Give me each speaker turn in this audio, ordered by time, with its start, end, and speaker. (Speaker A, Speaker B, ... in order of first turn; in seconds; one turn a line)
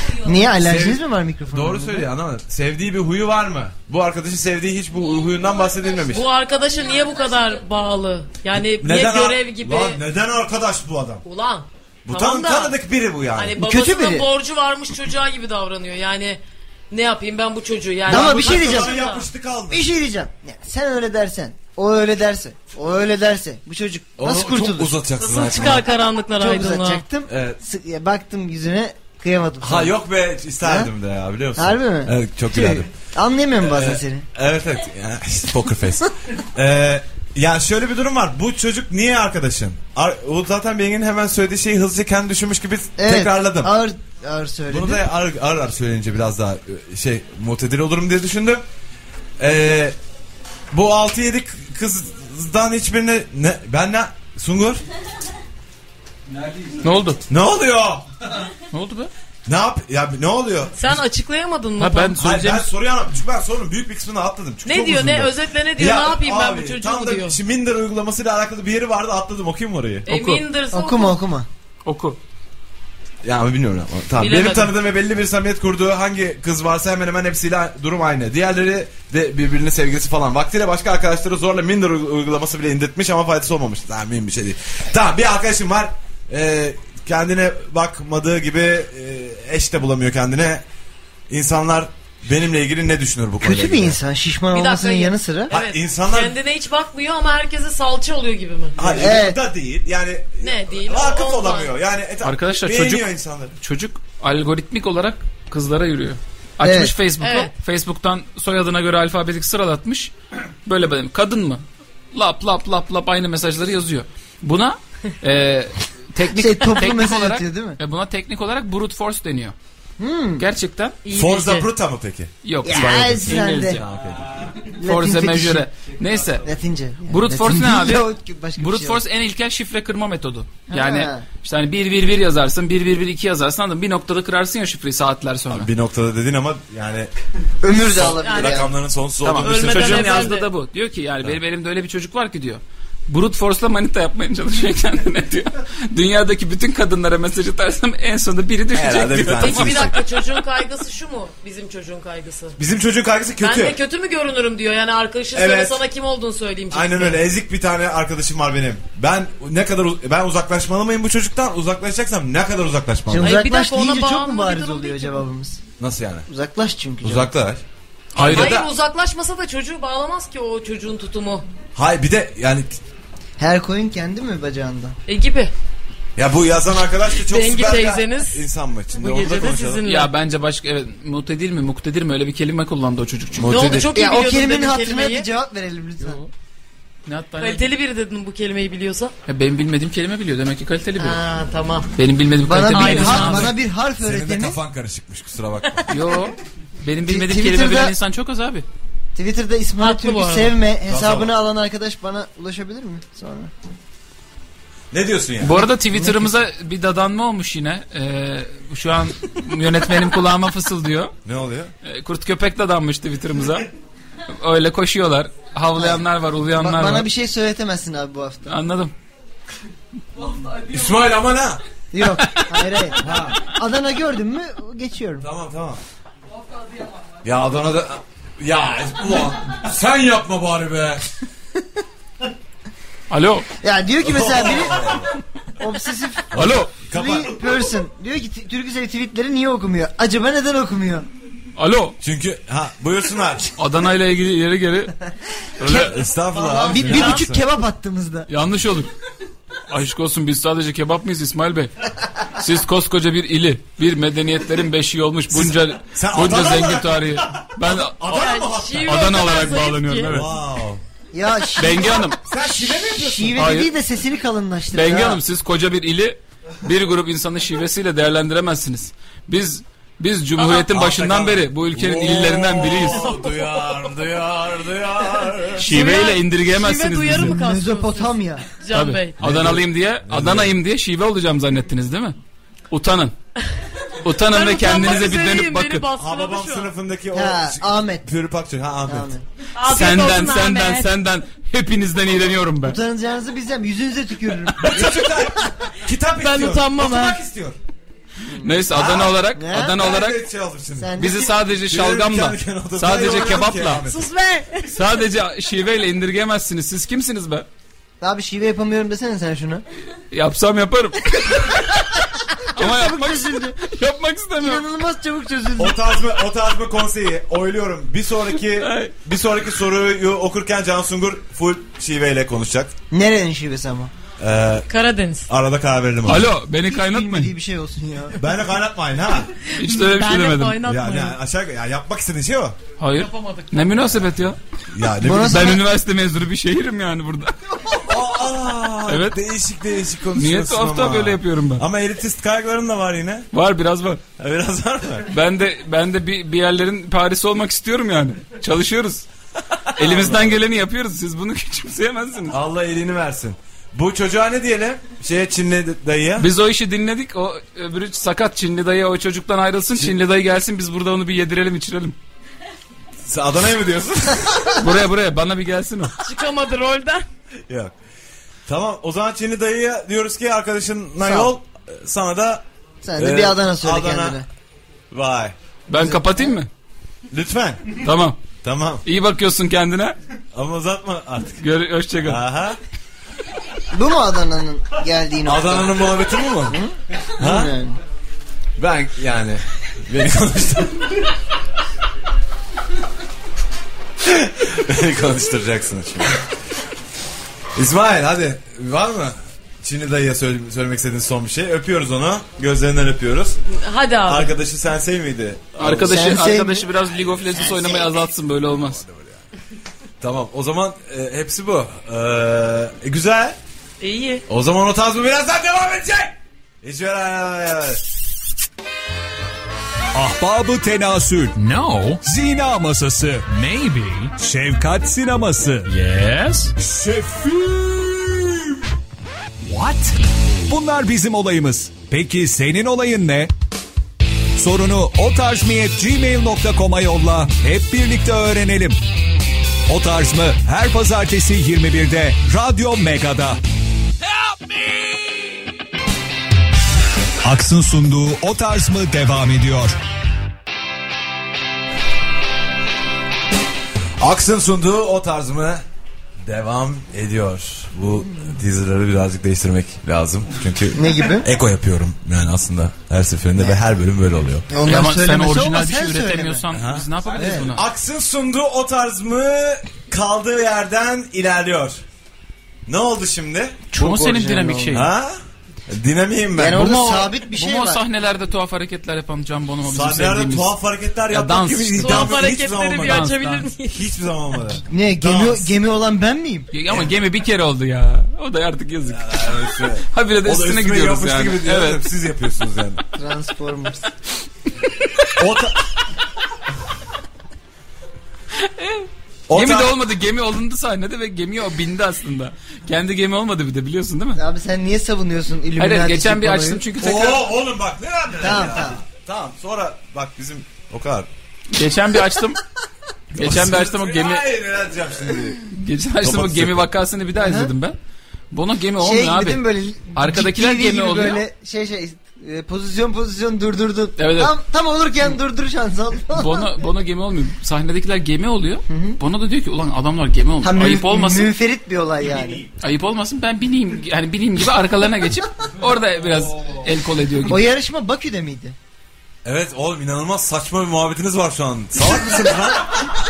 Speaker A: 0.1-2.1
Speaker B: 0.6-6.2
Speaker C: 6.1-10.0
Speaker B: 8.5-11.2
Speaker C: 11.2-12.8
Speaker B: 12.1-13.6
Speaker C: 13.4-16.4
Speaker A: 13.6-14.3
Speaker C: 16.9-19.3
Speaker B: 18.1-19.8
Speaker A: 18.1-18.9
Speaker A: 19.7-25.0
Speaker B: 24.2-25.9
Speaker C: 25.2-27.0
Speaker A: 26.4-29.9
Speaker B: 27.3-27.6
Speaker B: 29.6-32.9
Speaker A: 30.6-30.9
Speaker A: 31.6-34.3
Speaker B: 33.6-43.7
Speaker A: 43.0-45.0
Speaker B: 44.7-48.6
Speaker B: 49.4-50.0
Speaker B: 50.7-54.8
Speaker D: 56.7-57.2
Speaker B: 57.3-58.0
Speaker D: 58.7-59.1
Speaker B: 59.5-61.0
Speaker C: 60.8-62.2
Speaker D: 61.8-62.7
Speaker B: 62.2-70.1
Speaker C: 64.7-67.4
Speaker C: 70.1-71.2
Speaker D: 70.1-70.4
Speaker A: 70.7-71.5
Speaker D: 71.8-72.2
Speaker B: 73.2-90.6
Speaker C: 74.2-74.7
Speaker B: 91.3-94.0
Speaker A: 93.4-95.5
Speaker C: 94.5-98.8
Speaker B: 95.5-96.4
Speaker B: 98.8-103.5
Speaker A: 98.8-99.4
Speaker C: 100.4-101.7
Speaker D: 102.2-110.1
Speaker A: 106.6-107.0
Speaker C: 107.2-107.5
Speaker D: 110.7-119.5
Speaker A: 116.3-117.8
Speaker A: 120.0-120.5
Speaker D: 120.4-121.0
Speaker C: 121.0-121.7
Speaker B: 121.1-122.3
Speaker D: 122.5-123.8
Speaker A: 122.6-123.8
Speaker B: 123.3-124.3
Speaker A: 124.8-125.7
Speaker D: 124.8-126.5
Speaker A: 126.4-129.0
Speaker D: 127.1-135.7
Speaker A: 130.7-131.3
Speaker B: 135.5-137.1
Speaker A: 137.6-138.7
Speaker B: 137.8-140.3
Speaker C: 138.2-138.7
Speaker D: 139.2-150.0
Speaker C: 139.4-140.5
Speaker B: 148.7-150.0
Speaker C: 149.3-152.6
Speaker B: 152.6-153.8
Speaker C: 153.4-157.2
Speaker B: 155.3-155.8
Speaker B: 156.7-163.4
Speaker A: 163.1-165.6
Speaker C: 163.2-165.2
Speaker B: 165.8-166.3
Speaker A: 166.3-167.3
Speaker B: 167.0-167.6
Speaker D: 168.1-168.6
Speaker B: 168.2-168.7
Speaker C: 168.3-171.5
Speaker B: 171.8-172.8
Speaker A: 173.4-175.0
Speaker C: 175.1-175.5
Speaker B: 176.2-179.8
Speaker C: 177.2-178.4
Speaker C: 179.0-180.1
Speaker D: 179.9-183.7
Speaker B: 183.4-183.9
Speaker C: 183.5-185.3
Speaker A: 183.9-186.2
Speaker D: 186.0-186.3
Speaker D: 187.1-187.7
Speaker C: 187.4-189.1
Speaker D: 189.3-191.2
Speaker C: 191.0-191.9
Speaker D: 191.9-193.5
Speaker A: 192.4-194.6
Speaker C: 192.7-193.5
Speaker B: 194.0-195.9
Speaker D: 195.9-198.7
Speaker A: 197.1-197.9
Speaker A: 199.2-203.5
Speaker C: 199.8-200.5
Speaker B: 200.9-201.3
Speaker B: 204.9-205.6
Speaker D: 205.4-211.1
Speaker A: 205.9-206.3
Speaker B: 211.2-211.7
Speaker D: 211.8-213.7
Speaker D: 214.3-217.1
Speaker A: 215.8-216.0
Speaker A: 216.6-218.6
Speaker D: 218.5-218.9
Speaker B: 220.6-221.6
Speaker A: 221.9-225.3
Speaker D: 222.2-222.5
Speaker B: 223.0-223.4
Speaker B: 225.2-225.8
Speaker B: 227.2-231.1
Speaker D: 233.1-233.5
Speaker A: 233.6-235.0
Speaker B: 234.0-235.1
Speaker A: 235.6-241.1
Speaker B: 236.3-237.4
Speaker D: 236.3-236.7
Speaker D: 241.6-242.0
Speaker B: 242.0-243.5
Speaker D: 243.6-244.9
Speaker B: 245.6-247.4
Speaker D: 245.6-245.9
Speaker A: 245.6-248.3
Speaker C: 246.8-247.2
Speaker D: 248.3-248.9
Speaker D: 249.7-251.7
Speaker D: 252.3-258.1
Speaker B: 255.3-260.8
Speaker C: 258.1-260.1
Speaker D: 258.8-260.3
Speaker A: 261.1-265.2
Speaker D: 261.6-262.2
Speaker B: 262.2-263.5
Speaker D: 263.4-263.7
Speaker D: 264.7-273.1
Speaker B: 270.4-275.9
Speaker C: 272.8-273.7
Speaker D: 275.6-277.4
Speaker C: 275.6-279.2
Speaker A: 277.1-278.4
Speaker D: 278.7-282.2
Speaker B: 279.2-280.6
Speaker D: 282.7-283.1
Speaker D: 284.0-285.9
Speaker C: 284.1-286.7
Speaker B: 286.0-289.1
Speaker A: 287.1-288.1
Speaker A: 288.9-289.2
Speaker C: 289.6-290.9
Speaker D: 289.7-292.8
Speaker A: 292.6-295.2
Speaker B: 294.6-297.6
Speaker C: 296.2-297.2
Speaker A: 298.2-298.7
Speaker D: 298.4-300.2
Speaker B: 298.7-301.0
Speaker A: 299.3-299.9
Speaker A: 300.8-301.3
Speaker D: 301.0-303.8
Speaker B: 301.6-304.1
Speaker C: 303.9-304.7
Speaker D: 304.7-307.5
Speaker A: 308.0-309.6
Speaker D: 310.1-314.6
Speaker A: 312.6-313.6
Speaker A: 314.4-315.8
Speaker B: 315.6-322.7
Speaker D: 318.6-318.9
Speaker A: 322.9-323.9
Speaker B: 324.2-324.7
Speaker C: 324.7-325.3
Speaker B: 325.3-326.3
Speaker D: 326.1-327.3
Speaker A: 326.6-328.2
Speaker B: 328.1-329.3
Speaker C: 329.5-331.2
Speaker D: 329.6-330.6
Speaker B: 330.6-332.6
Speaker D: 332.8-334.4
Speaker C: 333.0-333.9
Speaker B: 334.7-335.6
Speaker A: 335.0-335.6
Speaker D: 335.1-337.4
Speaker B: 337.7-343.3
Speaker D: 338.9-339.2
Speaker D: 340.2-341.6
Speaker D: 343.3-344.0
Speaker B: 344.2-345.1
Speaker D: 345.1-349.1
Speaker B: 349.7-350.4
Speaker D: 349.8-352.4
Speaker B: 352.3-356.3
Speaker D: 356.2-362.0
Speaker B: 363.1-364.6
Speaker D: 364.6-365.9
Speaker C: 366.0-367.1
Speaker B: 367.5-367.7
Speaker B: 368.5-372.4
Speaker A: 371.0-371.3
Speaker A: 372.8-374.3
Speaker B: 373.0-374.2
Speaker B: 374.9-375.4
Speaker D: 375.7-376.5
Speaker A: 375.7-376.3
Speaker B: 377.1-377.8
Speaker D: 377.8-378.2
Speaker B: 378.4-378.8
Speaker D: 378.9-380.0
Speaker B: 380.3-381.4
Speaker D: 381.4-382.2
Speaker B: 382.0-382.6
Speaker A: 383.7-385.9
Speaker B: 385.3-386.6
Speaker A: 386.5-387.8
Speaker B: 387.2-387.6
Speaker B: 388.6-391.0
Speaker B: 394.1-396.2
Speaker B: 397.6-403.4
Speaker C: 403.5-404.4
Speaker B: 404.1-406.1
Speaker D: 405.6-408.8
Speaker A: 405.7-406.7
Speaker A: 407.3-408.0
Speaker B: 408.4-409.2
Speaker B: 410.0-413.4
Speaker C: 413.8-414.2
Speaker B: 414.3-417.8
Speaker E: 419.9-428.5
Speaker E: 429.4-433.3
Speaker E: 434.4-438.8
Speaker E: 439.7-443.4
Speaker E: 447.2-449.8
Speaker B: 454.0-455.6
Speaker B: 456.3-464.6
Speaker A: 460.7-461.3
Speaker A: 464.5-466.4
Speaker D: 464.6-467.6
Speaker B: 466.5-471.8
Speaker A: 467.1-467.5
Speaker B: 472.7-473.6
Speaker D: 473.7-474.9
Speaker A: 473.7-474.8
Speaker B: 474.7-475.2
Speaker B: 475.7-477.1
Speaker A: 476.4-477.8
Speaker D: 477.3-480.5
Speaker B: 479.6-483.1
Speaker D: 481.1-483.5
Speaker C: 481.8-483.9
Speaker B: 483.7-485.5
Speaker A: 484.7-486.5
Speaker D: 486.5-491.8
Speaker B: 488.9-492.8
Speaker A: 493.0-493.9
Speaker B: 495.1-495.6
Speaker D: 498.4-504.2
Speaker B: 499.3-499.8
Speaker A: 504.2-506.6
Speaker D: 505.6-507.3
Speaker B: 506.8-511.1
Speaker A: 508.2-508.8
Speaker D: 511.5-512.4
Speaker D: 513.1-514.2
Speaker B: 513.2-515.5
Speaker D: 515.5-517.8
Speaker B: 516.0-516.7
Speaker A: 517.2-517.5
Speaker D: 518.3-519.4
Speaker A: 518.8-526.5
Speaker D: 520.0-521.2
Speaker D: 524.0-524.4
Speaker D: 526.1-531.3
Speaker A: 528.7-529.0
Speaker A: 530.4-532.5
Speaker D: 532.6-537.4
Speaker A: 537.3-538.6
Speaker B: 539.2-542.9